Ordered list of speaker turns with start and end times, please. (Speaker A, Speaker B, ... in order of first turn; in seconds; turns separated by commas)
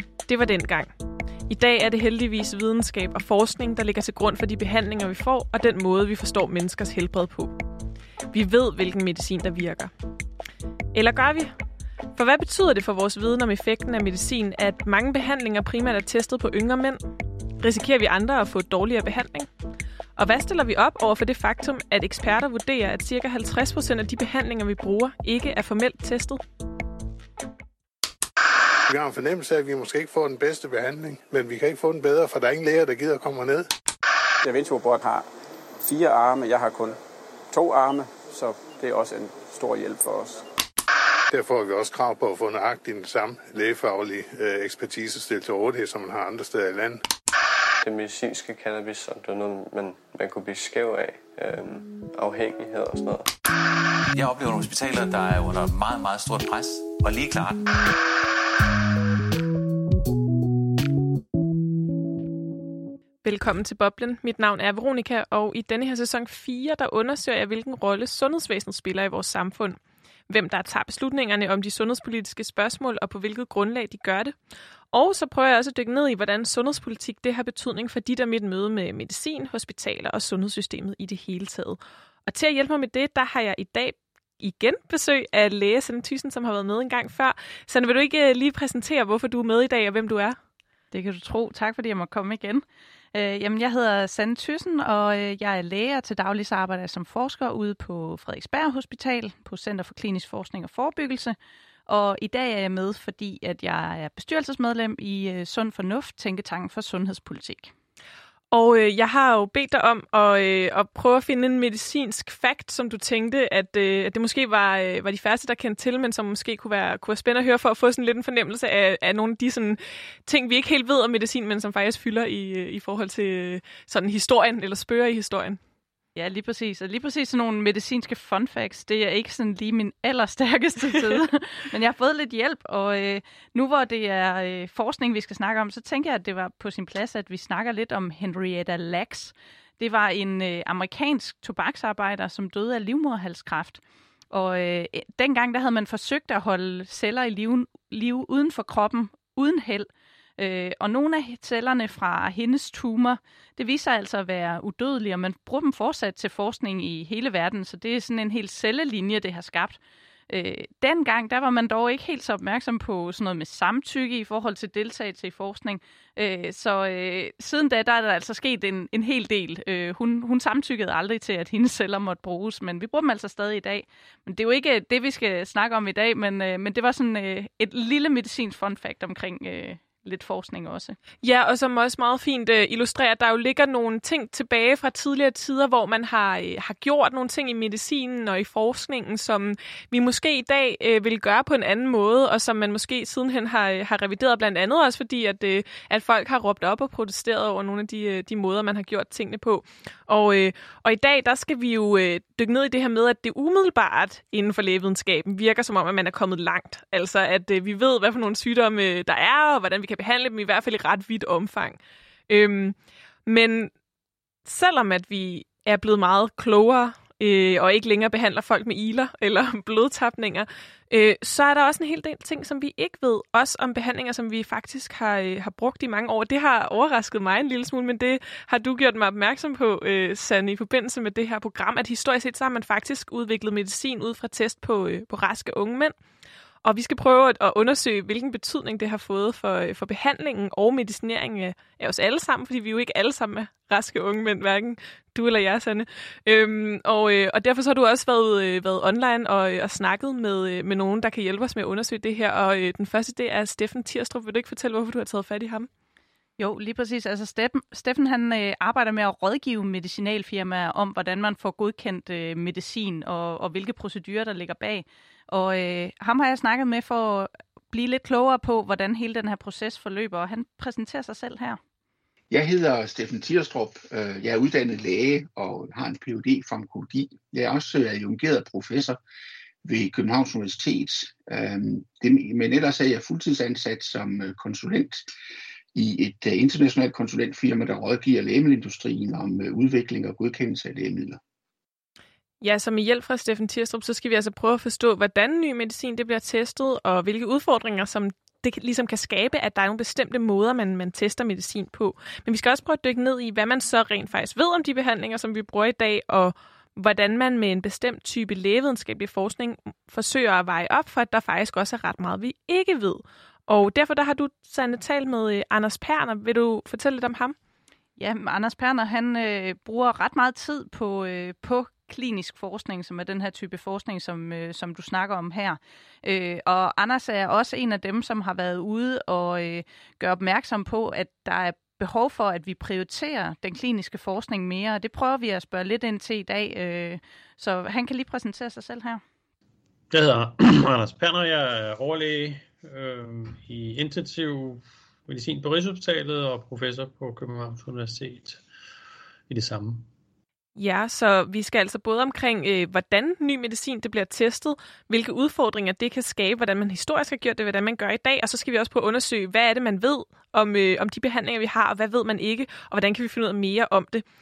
Speaker A: 0.3-0.9, Speaker A: 1.5-7.5, Speaker A: 8.3-9.9, Speaker A: 10.9-11.5, Speaker A: 12.1-17.0, Speaker A: 17.6-19.5, Speaker A: 20.2-26.4, Speaker B: 28.9-33.7, Speaker C: 34.4-35.3, Speaker C: 35.8-37.0, Speaker C: 37.5-40.4, Speaker B: 41.3-47.0, Speaker D: 47.8-53.3, Speaker E: 54.1-57.9, Speaker A: 63.2-69.8, Speaker A: 70.3-74.3, Speaker A: 74.9-90.4, Speaker F: 90.9-101.3, Speaker F: 101.9-107.7, Speaker A: 108.5-125.6, Speaker F: 126.2-143.8, Speaker F: 144.3-159.8, Speaker F: 160.3-181.0, Speaker A: 181.2-211.8, Speaker A: 212.3-213.7, Speaker A: 214.4-235.9, Speaker A: 236.6-255.7, Speaker F: 256.4-271.6, Speaker G: 272.3-279.0, Speaker G: 279.6-285.1, Speaker G: 285.7-291.2, Speaker A: 292.4-317.4, Speaker F: 318.0-339.0, Speaker H: 339.9-348.4, Speaker H: 349.3-349.9, Speaker A: 350.6-364.0